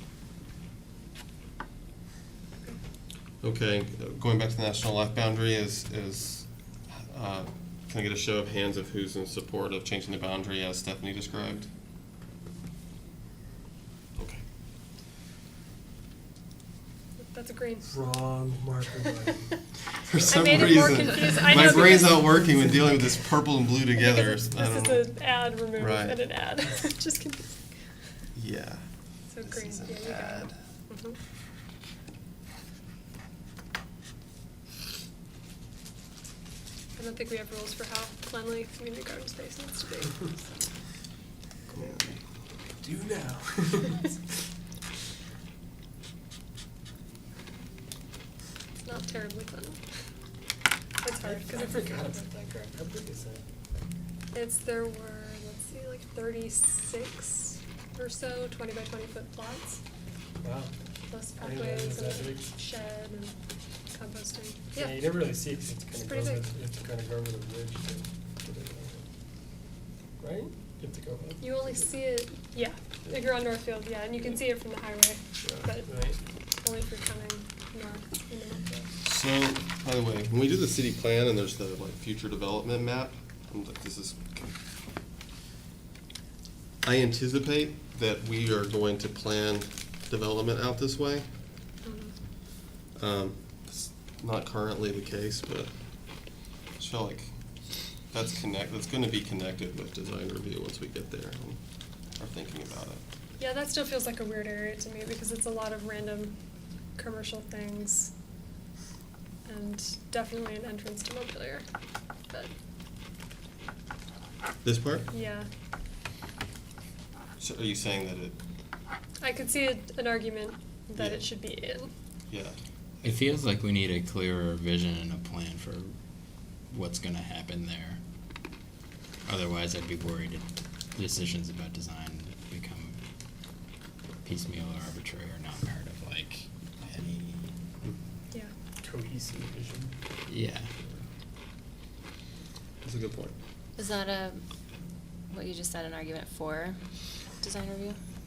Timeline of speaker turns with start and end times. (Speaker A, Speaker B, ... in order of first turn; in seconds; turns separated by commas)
Speaker A: 3.4-11.7, Speaker A: 14.2-14.4, Speaker B: 17.2-18.0, Speaker C: 17.9-19.6, Speaker A: 20.0-25.2, Speaker B: 20.2-22.4, Speaker B: 24.0-27.7, Speaker A: 25.7-26.3, Speaker A: 28.3-28.8, Speaker B: 29.3-31.2, Speaker A: 29.4-30.5, Speaker B: 37.0-40.6, Speaker A: 41.7-42.2, Speaker C: 42.8-44.1, Speaker B: 48.8-49.8, Speaker B: 51.0-52.0, Speaker C: 51.2-53.4, Speaker B: 54.3-59.8, Speaker C: 60.4-60.7, Speaker B: 61.1-63.4, Speaker C: 61.4-62.5, Speaker B: 63.9-65.3, Speaker C: 64.7-69.0, Speaker B: 65.9-66.5, Speaker C: 70.2-71.8, Speaker B: 71.4-75.9, Speaker C: 75.4-76.2, Speaker B: 76.6-78.9, Speaker A: 79.0-84.6, Speaker A: 86.8-91.2, Speaker B: 91.8-92.1, Speaker A: 92.9-103.0, Speaker B: 103.4-106.4, Speaker B: 107.0-108.1, Speaker B: 109.5-111.6, Speaker A: 114.6-115.1, Speaker B: 115.1-115.5, Speaker A: 117.4-118.3, Speaker B: 119.2-121.9, Speaker A: 121.0-121.3, Speaker A: 122.3-123.3, Speaker D: 123.0-125.9, Speaker D: 126.7-128.0, Speaker D: 129.2-133.0, Speaker D: 134.2-137.5, Speaker C: 138.8-139.9, Speaker D: 140.3-140.7, Speaker A: 142.8-143.3, Speaker E: 143.8-144.4, Speaker E: 145.3-146.8, Speaker E: 147.4-148.0